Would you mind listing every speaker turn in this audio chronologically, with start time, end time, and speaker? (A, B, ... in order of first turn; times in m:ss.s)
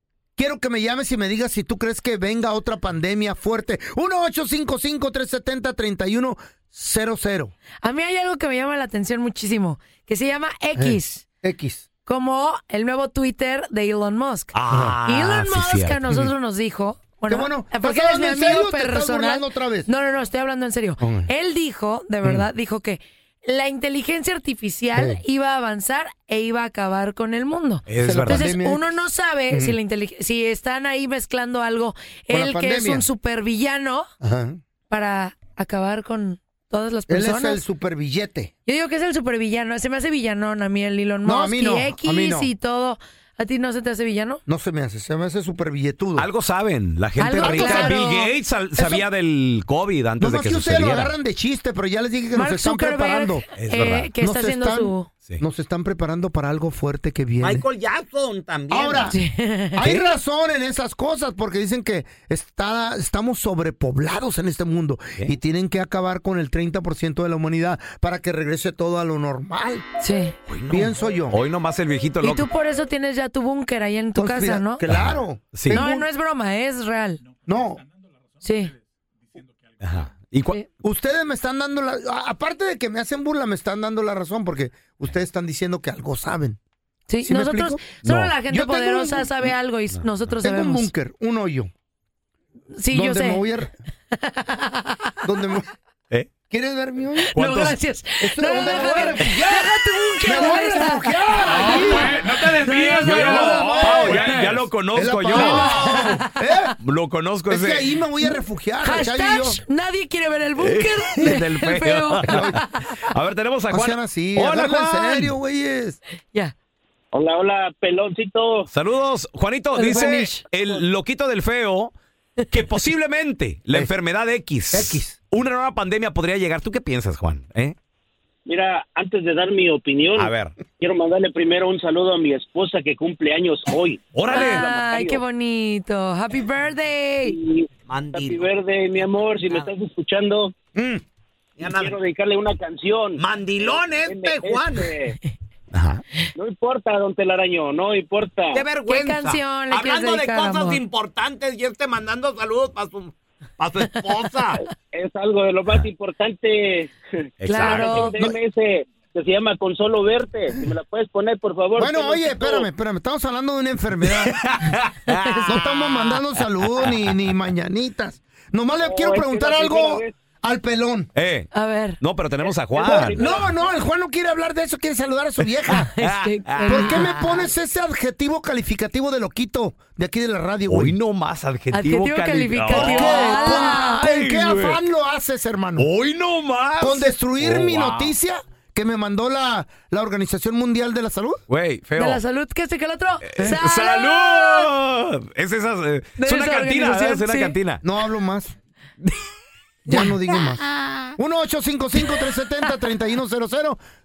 0:00.4-0:07.5 A
0:07.8-0:11.2 B
0:10.8-0:11.9 A
0:12.1-0:34.1 B
0:14.5-0:16.2 C
0:14.7-0:15.0 A
0:17.3-0:19.9 A
0:21.0-0:21.3 A
0:27.9-0:28.5 C
0:28.0-0:28.9 A
0:29.5-0:29.8 A
0:32.3-0:33.1 A
0:34.2-0:34.6 A
0:34.9-0:37.6 B
0:37.1-0:38.5 A
0:38.7-0:44.4 B
0:41.2-0:42.5 A
0:44.5-0:46.3 A
0:46.2-0:51.1 C
0:47.2-0:48.3 B
0:47.4-0:48.2 A
0:48.8-0:49.0 A
0:50.2-0:53.5 A
0:52.3-0:55.1 B
0:53.6-0:54.1 C
0:54.2-0:57.7 A
0:57.4-0:59.1 D
0:58.7-0:59.2 A
0:59.1-0:59.8 B
0:59.8-1:09.8 A
0:59.8-1:00.1 C
1:10.0-1:10.4 B
1:10.5-1:12.5 C
1:10.7-1:11.4 A
1:12.2-1:14.8 B
1:14.2-1:16.0 A
1:14.9-1:15.9 C
1:15.7-1:17.2 B
1:17.5-1:17.8 A
1:18.4-1:18.7 B
1:19.8-1:20.6 C
1:20.8-1:26.6 A
1:27.1-1:30.9 B
1:27.2-1:27.9 A
1:28.0-1:28.4 C
1:28.5-1:29.5 A
1:30.4-1:31.7 A
1:32.8-1:33.4 B
1:32.9-1:33.7 A
1:34.1-1:35.2 B
1:35.2-1:35.7 A
1:36.4-1:37.3 A
1:37.4-1:37.8 C
1:37.4-1:44.4 B
1:38.2-1:42.2 A
1:41.5-1:46.1 C
1:42.7-1:43.0 D
1:43.0-1:46.8 A
1:45.3-1:46.3 B
1:46.8-1:47.8 C
1:47.5-1:49.6 A
1:48.8-1:53.0 B
1:50.6-1:55.3 C
1:52.2-1:52.6 A
1:53.7-1:56.0 A
1:57.1-1:58.7 E
1:58.7-2:01.9 C
1:59.7-2:00.4 B
1:59.9-2:00.4 A
2:02.5-2:07.8 C
2:04.7-2:05.2 A
2:08.5-2:15.2 E
2:10.2-2:10.6 C
2:14.1-2:14.7 C
2:14.3-2:17.4 B
2:17.3-2:20.6 E
2:17.9-2:18.5 D
2:21.6-2:22.0 D
2:21.6-2:25.2 E
2:23.2-2:24.9 D
2:25.7-2:26.0 C
2:26.4-2:28.7 E
2:28.5-2:34.6 D
2:28.9-2:30.8 B
2:34.8-2:42.7 E
2:37.4-2:38.3 C
2:37.4-2:38.2 B
2:41.8-2:44.5 A
2:44.2-2:47.1 C
2:45.1-2:45.6 B
2:45.5-2:51.1 A
2:48.8-2:50.2 E
2:51.2-2:53.2 C
2:51.5-2:52.0 B
2:52.4-2:53.6 E
2:52.8-2:55.9 A
2:55.7-2:57.1 B
2:55.8-2:57.4 C
2:56.6-3:01.0 A
3:00.7-3:04.8 C
3:01.7-3:04.0 B
3:02.7-3:05.9 A
3:05.8-3:08.1 C
3:06.8-3:11.4 A
3:11.5-3:12.2 C
3:12.0-3:14.7 B
3:13.2-3:17.8 C
3:16.2-3:17.6 B
3:17.8-3:18.5 A
3:19.9-3:23.8 A
3:19.9-3:20.2 B